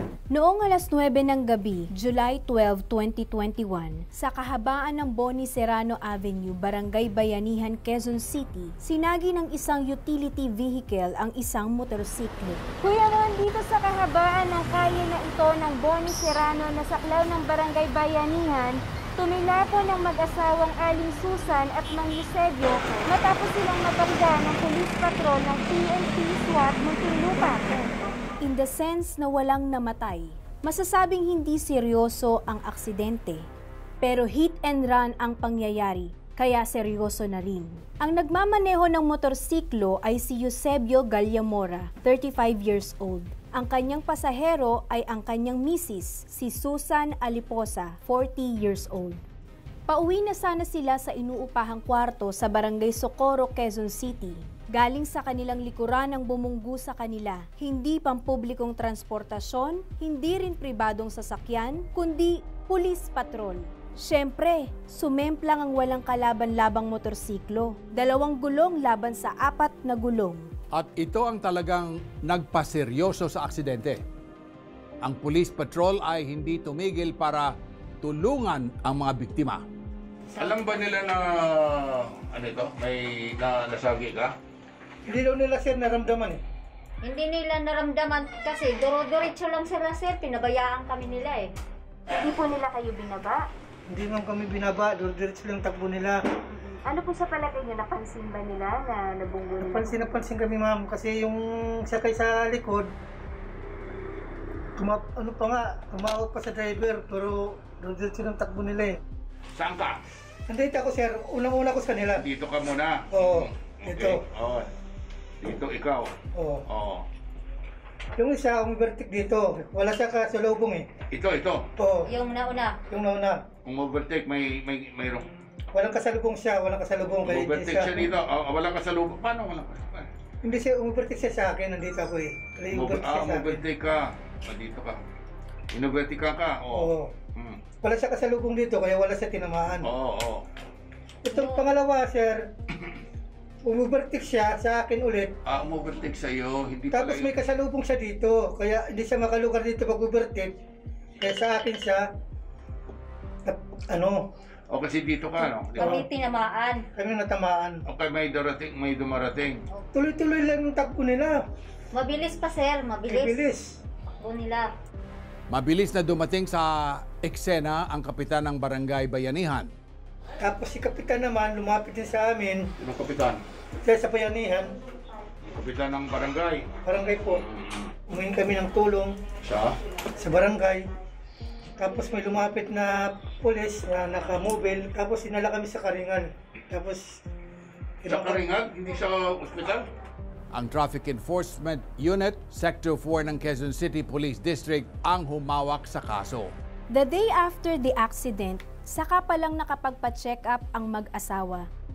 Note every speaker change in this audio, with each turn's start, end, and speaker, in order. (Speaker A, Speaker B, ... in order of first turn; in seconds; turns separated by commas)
Speaker A: 0.3-12.7, Speaker B: 12.8-28.1, Speaker A: 28.4-33.5, Speaker A: 34.0-49.2, Speaker A: 49.9-70.5, Speaker C: 70.7-74.0, Speaker C: 75.0-79.6, Speaker D: 80.3-80.8, Speaker E: 80.4-84.3, Speaker F: 85.1-86.4, Speaker D: 87.0-91.5, Speaker B: 92.1-93.5, Speaker F: 93.9-96.2, Speaker B: 96.5-100.2, Speaker F: 99.6-102.9, Speaker F: 104.8-109.0, Speaker E: 109.5-110.0, Speaker F: 110.5-112.2, Speaker E: 112.2-114.7, Speaker F: 113.1-114.2, Speaker E: 115.4-116.1, Speaker F: 116.3-116.6, Speaker E: 116.7-117.0, Speaker F: 118.2-120.8, Speaker E: 121.1-121.7, Speaker F: 121.8-122.1, Speaker D: 122.1-122.8, Speaker F: 122.9-123.4, Speaker E: 123.7-125.2, Speaker F: 125.7-128.1, Speaker E: 127.2-130.1, Speaker F: 130.4-133.6, Speaker E: 132.7-135.0, Speaker E: 135.7-137.6, Speaker F: 136.7-137.1, Speaker F: 137.8-139.9, Speaker E: 139.8-140.4, Speaker F: 141.2-142.4, Speaker D: 141.3-141.7, Speaker F: 143.6-145.3, Speaker E: 145.5-147.3, Speaker F: 146.9-150.6, Speaker F: 151.2-152.0, Speaker F: 153.4-154.2, Speaker E: 154.7-156.0, Speaker F: 155.8-156.1, Speaker D: 155.8-156.9, Speaker F: 156.9-157.8, Speaker E: 157.9-159.6, Speaker F: 159.9-161.3, Speaker D: 161.9-163.4, Speaker F: 163.1-163.8, Speaker D: 164.2-164.7, Speaker C: 165.5-169.7, Speaker F: 170.4-172.7, Speaker E: 172.8-173.4, Speaker F: 173.8-174.8, Speaker E: 175.5-176.7, Speaker F: 176.8-177.4, Speaker E: 177.3-177.9, Speaker F: 178.1-179.1, Speaker E: 179.4-179.8, Speaker F: 180.2-180.9, Speaker F: 181.8-187.1, Speaker F: 188.0-188.4, Speaker E: 188.1-189.8, Speaker C: 190.5-196.5, Speaker A: 196.9-201.7